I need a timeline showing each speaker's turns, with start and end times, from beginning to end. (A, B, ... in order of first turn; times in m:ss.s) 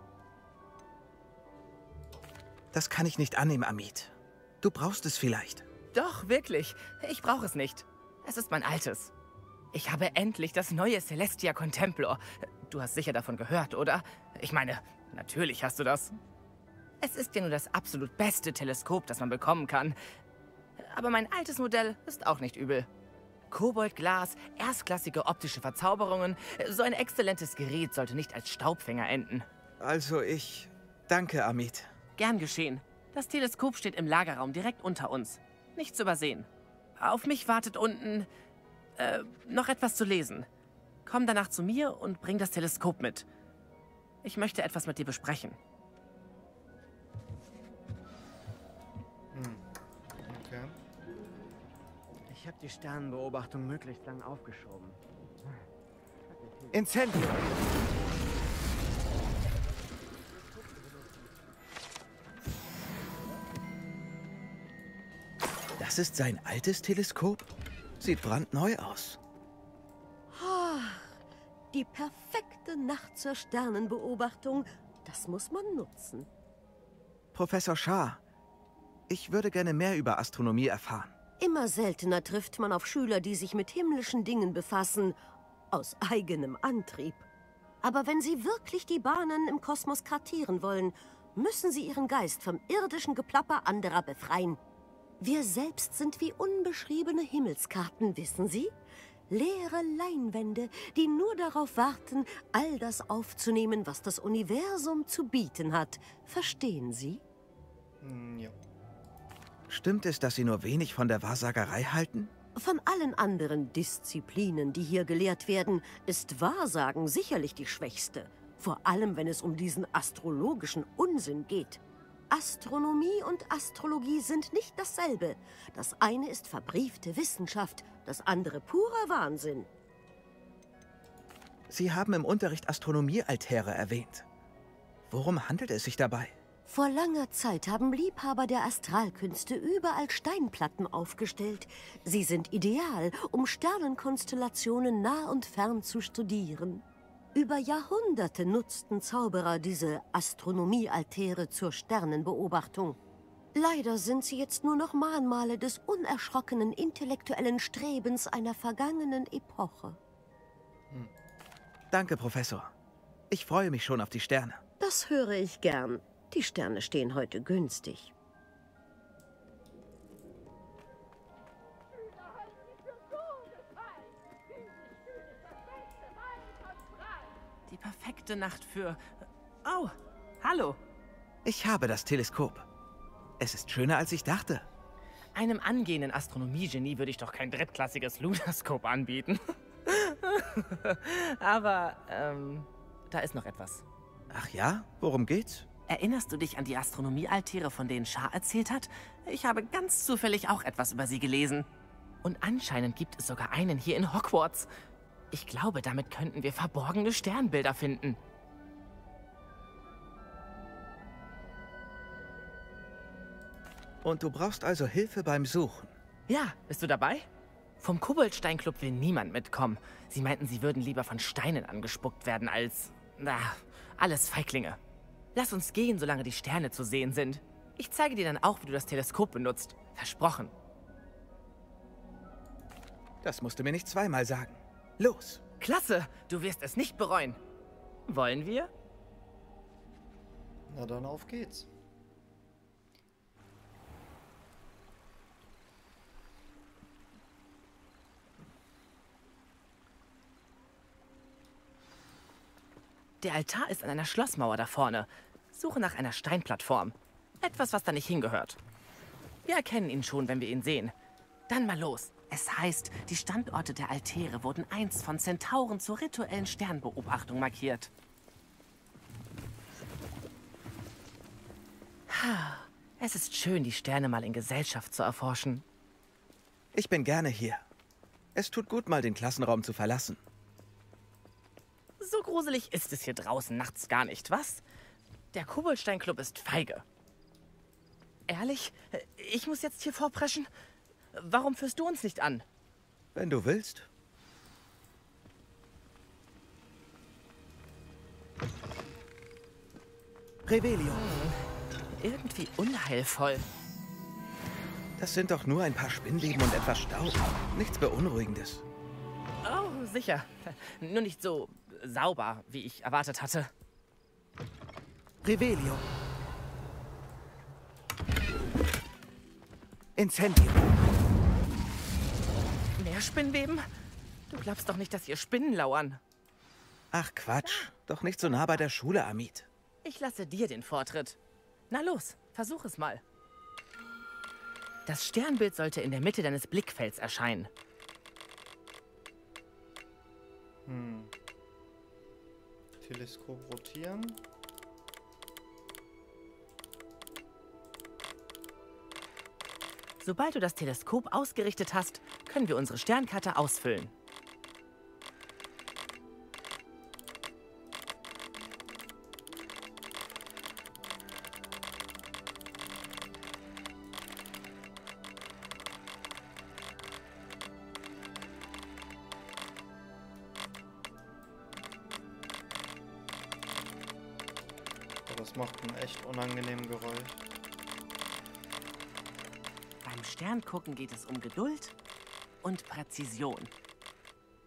0:02.7-0:05.6 A
0:05.9-0:09.1 B
0:09.7-0:16.2 B
0:17.0-0:20.0 B
0:20.8-0:22.9 B
0:23.5-0:29.5 B
0:29.8-0:31.9 A
0:32.2-0:36.5 B
0:37.0-0:38.3 B
0:39.0-0:40.5 B
0:41.1-0:43.3 B
0:44.2-0:45.6 B
0:49.3-0:49.6 C
0:50.2-0:50.8 C
0:52.3-0:55.0 D
0:56.4-0:57.4 D
1:05.8-1:09.2 A
1:10.3-1:11.2 E
1:11.7-1:16.3 E
1:17.3-1:18.2 A
1:19.1-1:21.1 A
1:21.4-1:25.2 E
1:25.7-1:27.2 E
1:27.8-1:34.6 E
1:35.2-1:38.7 E
1:39.3-1:47.2 E
1:48.0-1:48.6 C
1:49.7-1:52.3 A
1:52.6-2:09.7 E
2:11.7-2:14.3 A
2:15.1-2:16.4 A
2:16.7-2:33.0 E
2:33.6-2:40.0 E
2:41.9-2:42.7 A
2:43.3-2:44.6 A
2:44.8-2:48.1 E
2:57.7-3:00.8 B
3:01.4-3:02.7 A
3:03.4-3:04.7 A
3:05.4-3:13.8 B
3:14.3-3:15.7 A
3:15.9-3:21.7 B
3:22.2-3:24.7 B
3:25.3-3:28.2 B
3:34.0-3:35.9 A
3:36.3-3:37.3 B
3:37.8-3:44.8 B
3:45.4-3:50.5 B
3:53.2-3:55.4 A
3:55.6-3:57.4 B
3:58.1-3:58.7 B
4:00.7-4:01.7 C
4:13.2-4:18.6 B
4:19.5-4:20.9 B
4:21.5-4:27.9 B
4:32.1-4:35.6 B
4:36.7-4:37.6 A
4:38.4-4:40.2 A
4:42.0-4:44.6 B
4:45.3-4:46.8 B
4:48.3-4:50.5 B
4:51.1-4:52.4 B
4:53.2-4:53.9 A
5:00.5-5:01.0 A
5:00.9-5:01.4 B
5:02.0-5:03.5 B
5:05.0-5:08.6 A
5:09.4-5:13.5 B
5:15.2-5:15.8 A
5:20.0-5:20.7 A
5:22.8-5:23.6 B
5:24.3-5:26.0 B
5:26.9-5:29.5 A
5:27.4-5:28.6 B
5:29.8-5:31.2 B
5:31.7-5:33.0 B
5:34.9-5:37.5 B
5:40.7-5:41.1 C
5:42.8-5:44.2 C
5:50.0-5:53.9 B
6:15.1-6:17.2 C
6:19.8-6:21.7 B
6:22.4-6:23.5 B